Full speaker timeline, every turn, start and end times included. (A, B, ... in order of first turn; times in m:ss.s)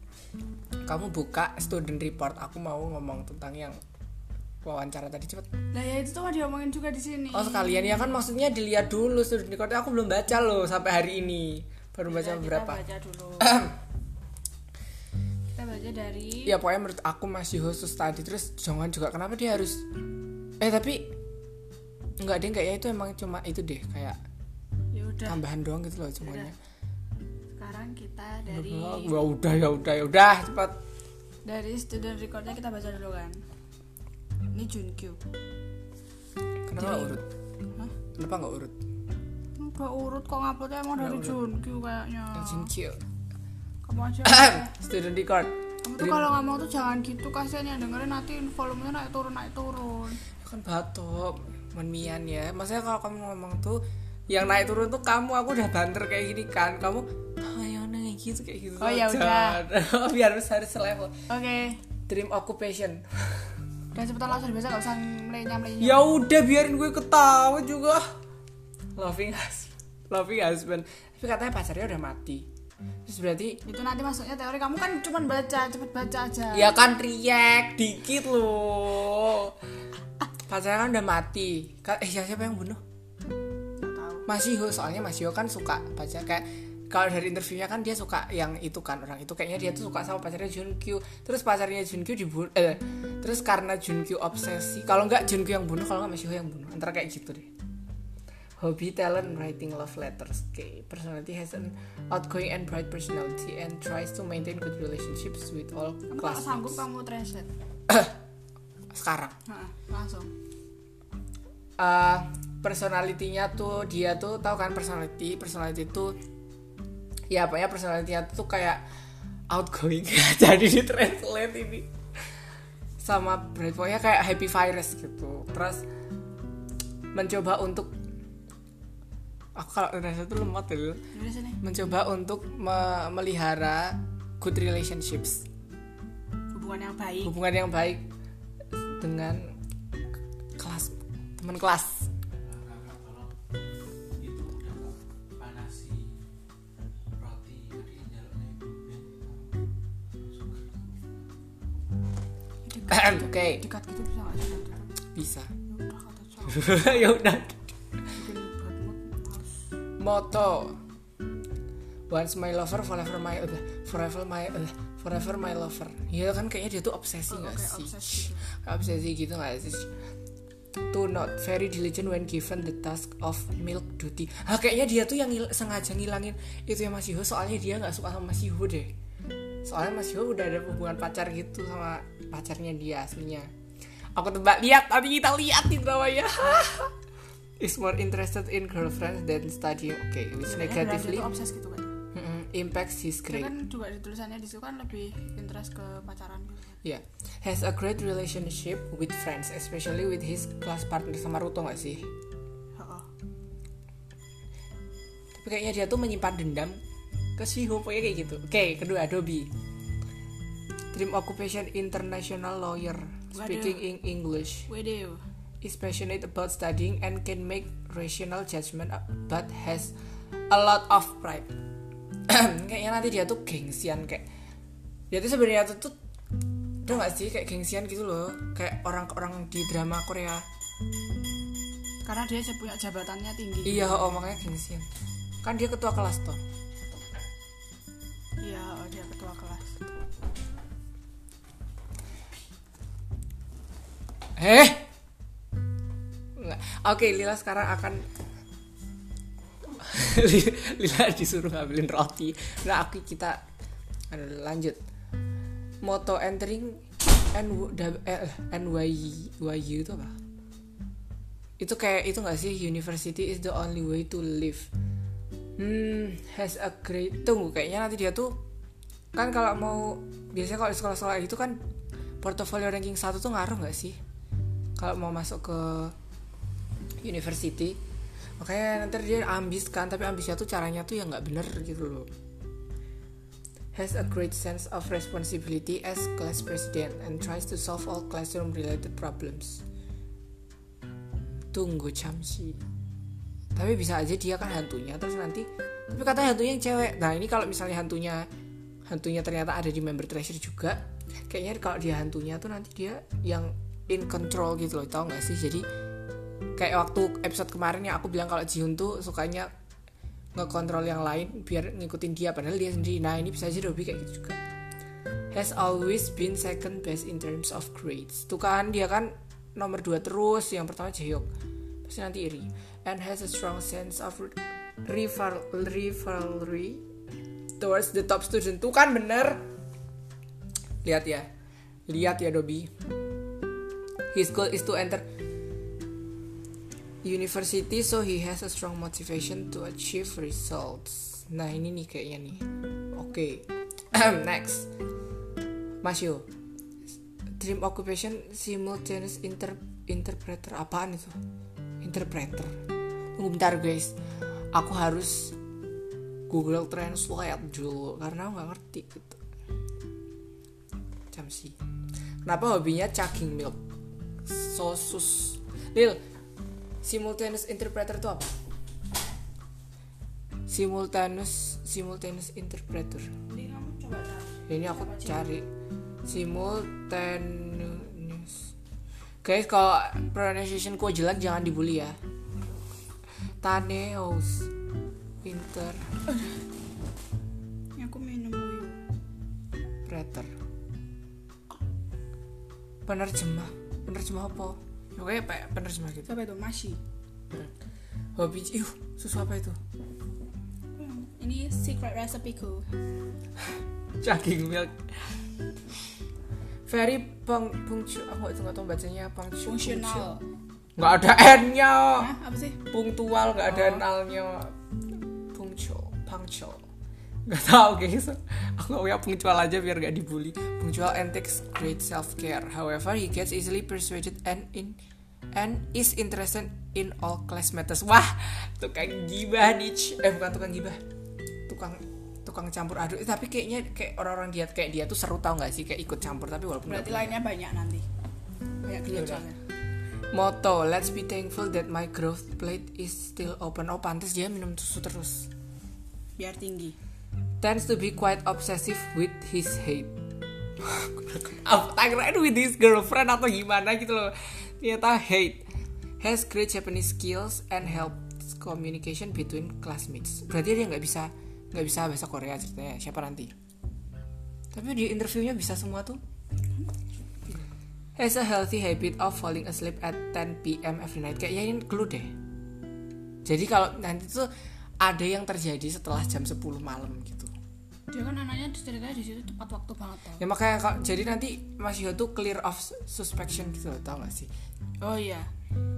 0:00.8-0:03.8 A
0:04.6-0:05.5 A
0:05.7-0:08.2 B
0:07.3-0:12.8 A
0:12.1-0:13.6 B
0:13.4-0:13.8 A
0:15.6-0:16.6 B
0:16.5-0:19.8 A
0:20.6-0:21.1 A
0:22.2-0:24.2 A
0:24.9-0:25.4 B
0:25.3-0:26.6 A
0:26.2-0:26.5 B
0:27.6-0:29.1 B
0:28.5-0:30.8 A
0:31.4-0:33.4 B
0:34.5-0:35.2 B
0:36.7-0:37.2 A
0:36.8-0:37.2 B
0:38.2-0:38.7 A
0:39.6-0:42.7 B
0:41.0-0:41.4 A
0:42.3-0:43.0 A
0:43.8-0:44.7 B
0:44.2-0:46.3 A
0:45.8-0:50.2 B
0:50.4-1:01.2 A
0:58.8-0:59.6 B
1:01.3-1:01.8 B
1:02.1-1:03.5 A
1:03.9-1:06.1 B
1:05.8-1:08.2 A
1:09.0-1:12.5 A
1:13.0-1:13.6 A
1:13.7-1:16.7 B
1:16.5-1:19.6 A
1:20.5-1:22.8 A
1:23.8-1:24.3 B
1:24.3-1:37.5 A
1:38.6-1:46.8 A
1:46.1-1:47.5 B
1:47.9-1:48.2 A
1:48.9-1:49.4 A
1:49.5-1:50.3 B
1:51.8-1:56.2 A
1:57.3-1:58.8 A
1:59.5-2:01.9 A
2:03.0-2:05.8 A
2:07.1-2:07.9 A
2:09.6-2:11.0 A
2:11.1-2:11.6 B
2:11.6-2:15.4 A
2:16.5-2:17.4 B
2:17.2-2:18.1 A
2:19.0-2:19.6 A
2:20.6-2:22.1 A
2:22.4-2:23.3 C
2:24.2-2:26.1 C
2:27.2-2:29.4 C
2:30.2-2:30.9 C
2:32.7-2:34.9 B
2:32.9-2:33.6 A
2:35.2-2:35.5 A
2:35.7-2:37.0 B
2:36.5-2:37.6 A
2:38.1-2:39.6 B
2:40.0-2:40.8 A
2:42.1-2:49.9 A
2:47.3-2:48.5 B
2:50.9-2:58.9 A
2:59.6-3:03.5 A
3:04.2-3:07.0 A
3:07.6-3:11.3 A
3:10.4-3:12.0 B
3:12.1-3:13.5 A
3:13.3-3:16.8 B
3:16.8-3:22.1 A
3:22.8-3:23.1 B
3:25.3-3:26.8 A
3:27.4-3:29.5 A
3:30.9-3:34.7 A
3:33.3-3:33.9 B
3:34.7-3:35.2 B
3:35.6-3:39.9 A
3:40.5-3:41.5 A
3:42.3-3:44.3 A
3:45.1-3:46.0 A
3:46.8-3:50.4 A
3:52.0-3:54.2 B
3:53.6-3:54.9 A
3:55.4-3:56.4 A
3:58.4-3:59.8 B
4:04.4-4:04.9 A
4:06.4-4:08.0 A
4:09.7-4:13.4 A
4:14.1-4:14.8 A
4:15.8-4:20.2 A
4:21.6-4:24.7 A
4:25.6-4:28.4 A
4:29.1-4:31.6 A
4:32.2-4:34.0 A
4:34.8-4:36.0 A
4:37.0-4:37.8 A
4:38.4-4:42.1 A
4:43.7-4:49.6 A
4:51.5-4:52.6 A
4:53.5-4:58.3 A
4:58.9-5:05.7 A
5:06.6-5:09.5 A
5:10.4-5:14.4 A
5:15.3-5:21.3 A
5:21.8-5:26.8 A
5:27.6-5:29.4 A
5:30.8-5:31.3 A
5:31.9-5:32.7 A
5:34.1-5:35.1 A
5:37.0-5:44.7 A
5:45.8-5:46.3 A
5:47.4-5:51.2 A
5:51.8-5:52.6 A
5:53.2-5:54.0 A
5:54.5-5:55.4 A
5:56.3-5:59.2 A
6:01.1-6:01.6 A
6:02.2-6:03.6 A
6:04.2-6:06.0 A
6:06.8-6:08.4 A
6:10.5-6:13.1 A
6:13.3-6:15.3 B
6:14.5-6:15.5 A
6:16.0-6:18.5 A
6:19.2-6:22.0 A
6:23.4-6:24.5 A
6:25.2-6:25.9 A
6:27.8-6:28.8 B
6:29.8-6:30.3 A
6:32.9-6:36.1 A
6:36.1-6:36.8 B
6:38.2-6:39.6 A
6:40.8-6:42.7 B
6:44.0-6:45.2 A
6:46.7-6:50.1 A
6:49.4-6:50.2 B
6:50.8-6:52.1 A
6:52.0-6:52.6 B
6:52.7-6:54.6 A
6:53.5-6:53.8 B
6:55.3-6:56.6 A
6:57.3-7:04.8 A
7:05.3-7:10.8 A
7:11.5-7:17.2 A
7:16.7-7:17.9 B
7:18.6-7:19.4 B
7:18.9-7:19.2 A
7:20.1-7:25.3 A
7:26.2-7:26.8 B
7:27.4-7:30.0 A
7:30.6-7:35.4 A
7:36.0-7:43.3 A
7:44.5-7:46.0 A
7:48.0-7:52.2 A
7:53.2-7:57.3 A
7:57.9-8:00.2 B
8:00.2-8:04.3 A
8:04.8-8:05.3 B